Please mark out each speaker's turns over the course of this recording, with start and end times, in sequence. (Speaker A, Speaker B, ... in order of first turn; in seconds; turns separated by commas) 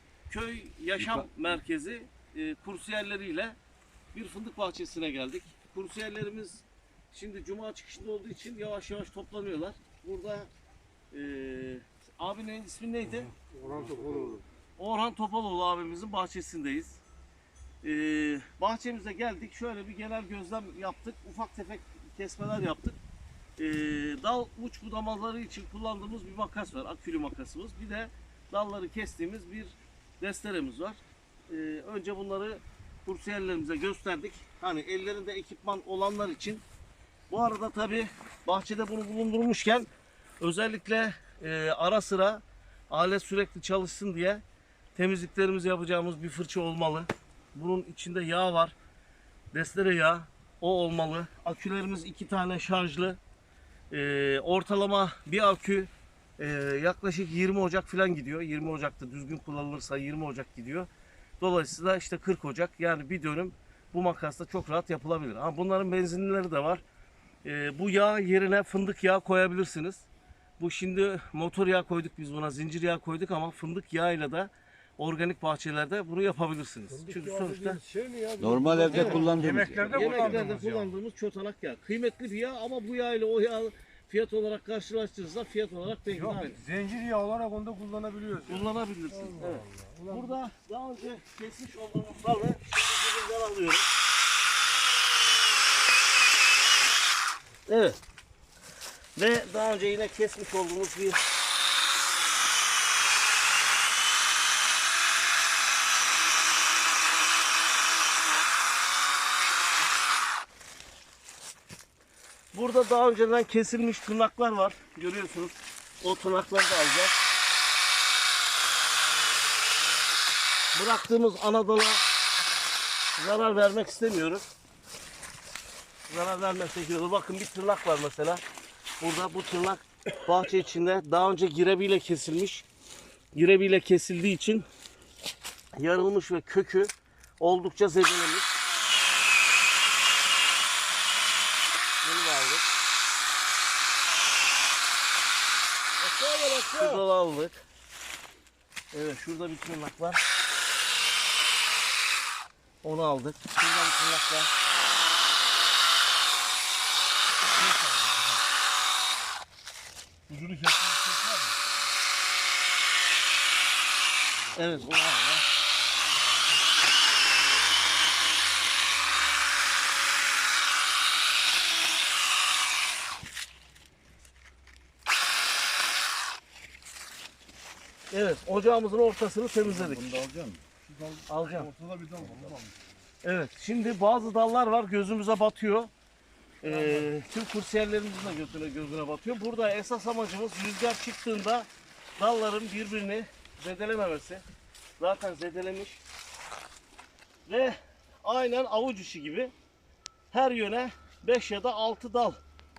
Speaker A: 0.3-3.5, Speaker A: 4.1-10.5, Speaker A: 11.1-13.3, Speaker B: 13.4-14.4, Speaker A: 14.8-17.0, Speaker A: 17.8-23.0, Speaker A: 23.6-36.6, Speaker A: 37.3-39.9, Speaker A: 40.4-44.4, Speaker A: 44.9-48.8, Speaker A: 49.5-53.2, Speaker A: 53.9-60.9, Speaker A: 61.4-66.8, Speaker A: 67.4-70.0, Speaker A: 70.6-77.8, Speaker B: 76.9-80.9, Speaker C: 78.4-80.4, Speaker A: 78.9-86.6, Speaker B: 86.1-90.3, Speaker A: 88.5-93.9, Speaker A: 97.7-98.0, Speaker A: 99.2-101.2, Speaker A: 112.5-117.2, Speaker A: 120.7-122.0, Speaker A: 123.2-124.4, Speaker A: 126.1-128.4, Speaker A: 129.0-132.7, Speaker A: 133.3-134.7, Speaker A: 135.7-138.6, Speaker A: 142.0-142.7, Speaker A: 146.0-147.6, Speaker A: 148.9-150.2, Speaker A: 152.8-154.5, Speaker A: 157.6-158.2, Speaker A: 160.3-161.5, Speaker A: 164.5-165.4, Speaker A: 178.1-180.1, Speaker C: 179.7-180.6, Speaker B: 180.8-182.8, Speaker A: 181.3-181.7, Speaker C: 182.2-182.6, Speaker A: 183.2-185.9, Speaker A: 186.6-194.4, Speaker B: 186.7-186.9, Speaker A: 195.0-196.0, Speaker A: 197.5-199.5, Speaker A: 200.3-202.4